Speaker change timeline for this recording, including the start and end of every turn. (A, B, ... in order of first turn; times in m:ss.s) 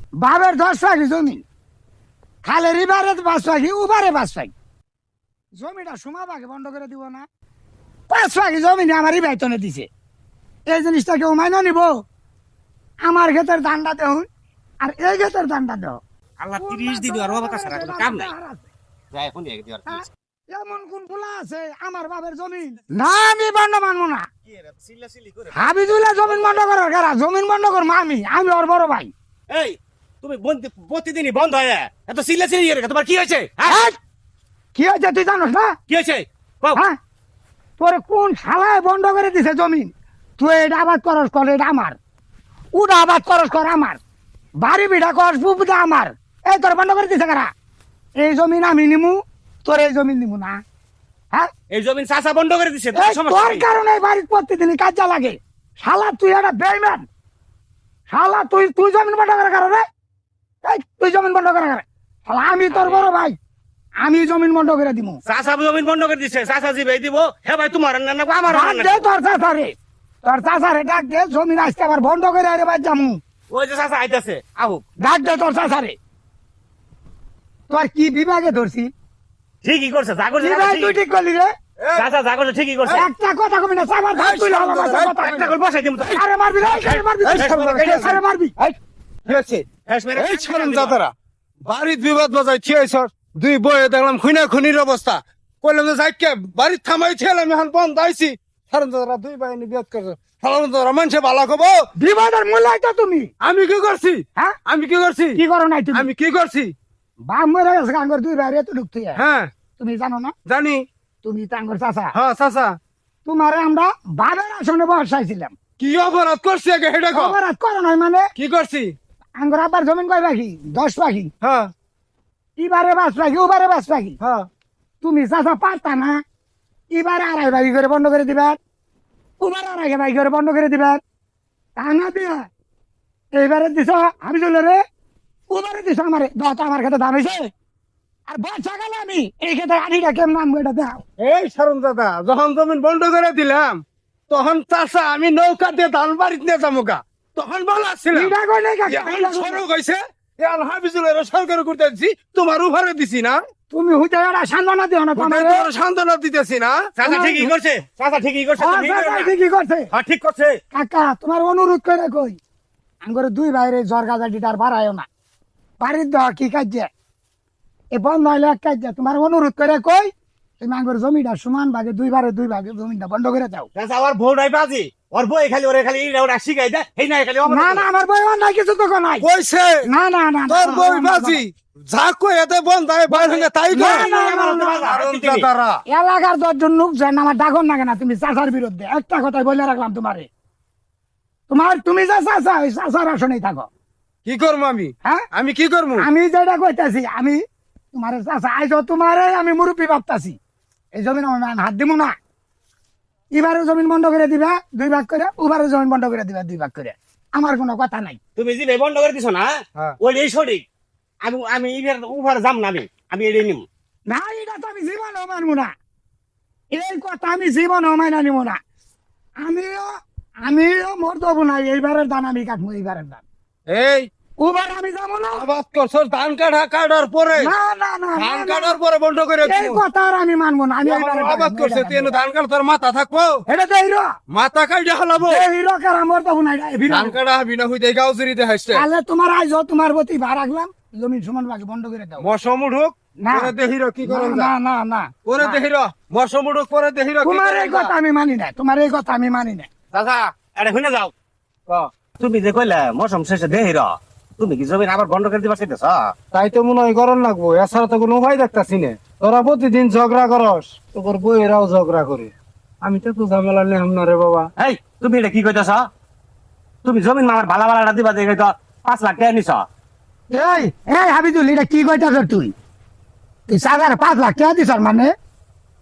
0:00.2-0:01.4 A
0:02.4-0:04.5 A
0:05.6-0:07.2 A
0:08.1-0:09.9 A
0:10.7-0:12.0 A
0:13.0-0:14.3 A
0:14.8-0:16.0 A
0:16.4-0:18.3 B
0:16.6-0:18.7 A
0:19.1-0:20.1 B
0:19.9-0:24.3 A
0:24.5-0:25.7 B
0:25.5-0:29.1 A
0:26.2-0:26.5 B
0:29.5-0:33.9 B
0:33.6-0:34.0 A
0:34.7-0:35.7 A
0:35.9-0:36.8 B
0:37.8-0:42.0 A
0:42.7-0:44.0 A
0:44.6-0:47.5 A
0:48.2-0:50.6 A
0:51.7-0:53.7 B
0:52.9-0:57.0 A
0:58.1-0:59.8 A
1:00.6-1:03.4 A
1:02.7-1:03.1 B
1:04.0-1:05.2 A
1:05.2-1:09.1 B
1:08.3-1:09.7 A
1:10.2-1:13.2 A
1:13.5-1:14.8 B
1:15.0-1:16.0 A
1:17.7-1:18.9 A
1:19.6-1:21.0 B
1:20.4-1:21.5 A
1:21.8-1:22.1 C
1:21.9-1:23.1 B
1:22.9-1:25.5 A
1:24.1-1:25.5 C
1:25.2-1:28.1 B
1:26.0-1:28.5 A
1:27.2-1:31.1 C
1:29.9-1:31.0 B
1:31.6-1:41.9 C
1:42.0-1:43.3 A
1:43.4-1:45.4 C
1:45.3-1:46.1 A
1:45.9-1:46.7 C
1:47.3-1:49.2 A
1:49.2-1:49.5 C
1:49.8-1:50.3 A
1:50.4-1:50.8 C
1:51.2-1:52.1 A
1:52.1-1:52.8 C
1:53.2-1:55.6 A
1:55.8-1:57.4 C
1:57.1-1:58.3 A
1:58.3-1:58.9 C
1:59.4-2:01.3 A
2:01.4-2:01.7 C
2:02.6-2:04.2 A
2:04.2-2:04.5 C
2:05.0-2:06.2 A
2:06.9-2:08.6 A
2:09.4-2:11.0 A
2:11.8-2:12.4 A
2:13.3-2:14.8 A
2:15.5-2:17.5 A
2:18.3-2:21.0 A
2:21.2-2:28.3 C
2:28.1-2:29.6 A
2:28.9-2:33.4 C
2:33.7-2:35.7 A
2:35.2-2:37.5 C
2:37.0-2:39.3 B
2:38.6-2:39.9 A
2:39.9-2:40.6 B
2:40.7-2:42.4 A
2:43.0-2:45.1 A
2:45.8-2:46.9 A
2:47.9-2:53.7 A
2:53.7-2:57.8 B
2:57.5-2:59.3 A
2:59.2-2:59.9 C
2:59.9-3:01.4 A
3:00.5-3:05.8 C
3:03.1-3:05.5 B
3:03.7-3:04.6 A
3:05.9-3:10.3 A
3:11.5-3:13.7 A
3:14.2-3:16.0 C
3:16.0-3:17.4 A
3:17.9-3:20.4 A
3:20.9-3:22.1 A
3:23.3-3:28.2 A
3:28.4-3:30.6 B
3:31.2-3:33.6 B
3:34.1-3:35.7 A
3:36.7-3:38.6 A
3:39.4-3:39.9 A
3:40.4-3:43.2 A
3:43.7-3:44.1 C
3:44.4-3:45.4 A
3:45.3-3:47.5 C
3:47.4-3:48.8 A
3:48.2-3:49.8 C
3:49.4-3:52.2 A
3:50.8-3:53.4 C
3:53.5-3:54.1 A
3:54.3-3:55.4 C
3:55.2-3:57.1 A
3:56.9-3:58.8 C
3:58.7-4:02.3 A
4:02.2-4:04.5 C
4:03.2-4:05.6 A
4:05.2-4:07.9 C
4:07.2-4:09.7 A
4:09.9-4:11.1 B
4:12.2-4:16.1 B
4:16.3-4:24.5 C
4:24.6-4:25.8 B
4:26.8-4:29.6 B
4:30.3-4:32.5 A
4:33.5-4:35.1 A